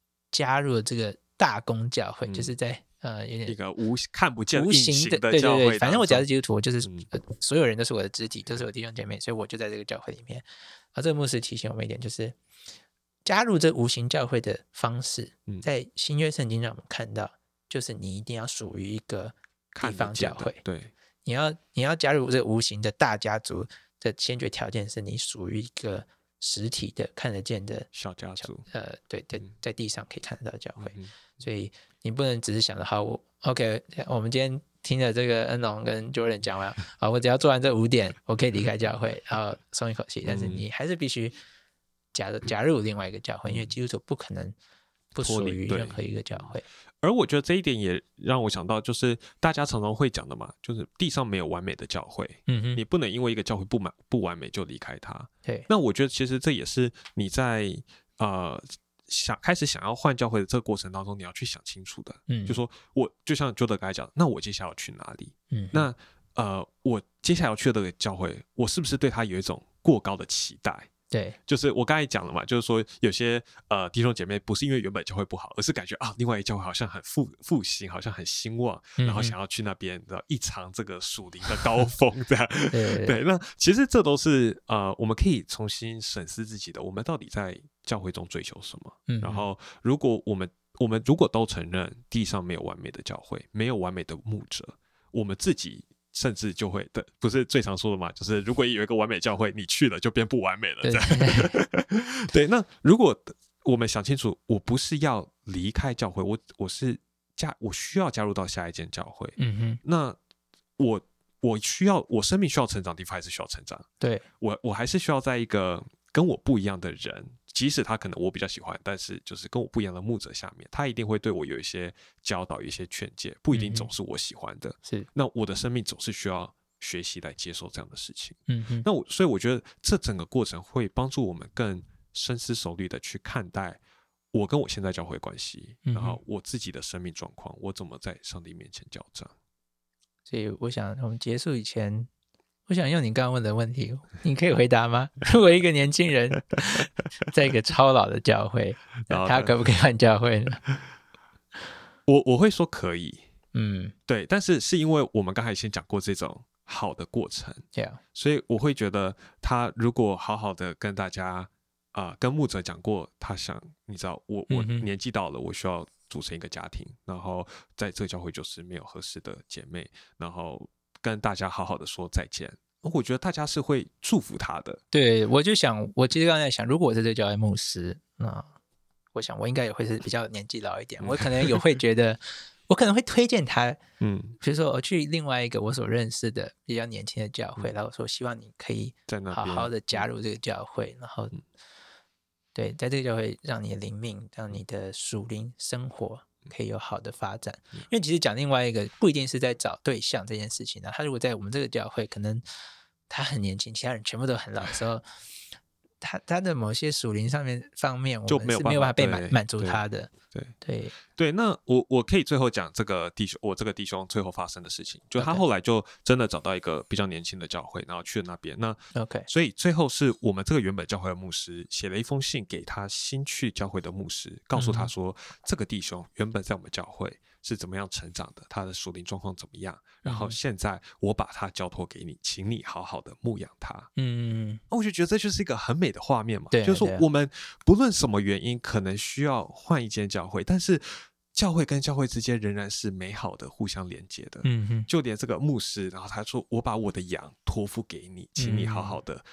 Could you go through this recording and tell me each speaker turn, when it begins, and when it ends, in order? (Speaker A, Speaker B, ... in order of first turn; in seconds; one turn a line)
Speaker A: 0.3-3.6
Speaker B: 2.3-2.5
Speaker B: 3.5-6.2
Speaker A: 4.5-12.4
Speaker B: 6.8-7.1
Speaker A: 13.2-20.6
Speaker B: 19.8-20.9
Speaker A: 21.2-41.4
Speaker B: 27.9-28.6
Speaker B: 30.8-31.2
Speaker B: 40.2-40.6
Speaker A: 42.1-44.5
Speaker B: 43.5-43.7
Speaker A: 45.1-46.6
Speaker B: 45.2-46.0
Speaker B: 47.0-70.9
Speaker A: 52.5-52.8
Speaker A: 62.3-62.6
Speaker A: 65.5-65.9
Speaker A: 71.1-71.4
Speaker B: 71.5-110.2
Speaker A: 79.0-79.3
Speaker A: 82.7-83.2
Speaker A: 89.1-89.5
Speaker A: 100.8-101.6
Speaker A: 109.4-109.8
Speaker B: 110.8-113.8
Speaker B: 114.4-133.8
Speaker A: 123.5-123.9
Speaker A: 128.5-128.9
Speaker B: 134.3-139.3
Speaker A: 135.8-136.2
Speaker A: 140.3-142.1
Speaker A: 142.7-150.6
Speaker B: 149.0-149.5
Speaker B: 152.1-153.2
Speaker A: 153.5-153.9
Speaker B: 154.1-174.8
Speaker A: 157.7-158.0
Speaker A: 164.5-164.9
Speaker A: 174.9-178.5
Speaker A: 179.1-183.8
Speaker B: 181.0-181.6
Speaker B: 184.0-184.4
Speaker A: 184.4-191.3
Speaker B: 189.1-190.1
Speaker A: 192.5-202.4
Speaker A: 203.1-205.1
Speaker A: 206.0-210.9
Speaker B: 208.3-210.5
Speaker B: 211.1-233.9
Speaker A: 215.2-215.4
Speaker A: 218.9-219.3
Speaker A: 224.5-224.9
Speaker A: 230.0-230.4
Speaker A: 234.0-234.6
Speaker B: 234.7-249.2
Speaker A: 236.5-237.0
Speaker A: 244.4-244.9
Speaker A: 248.4-249.0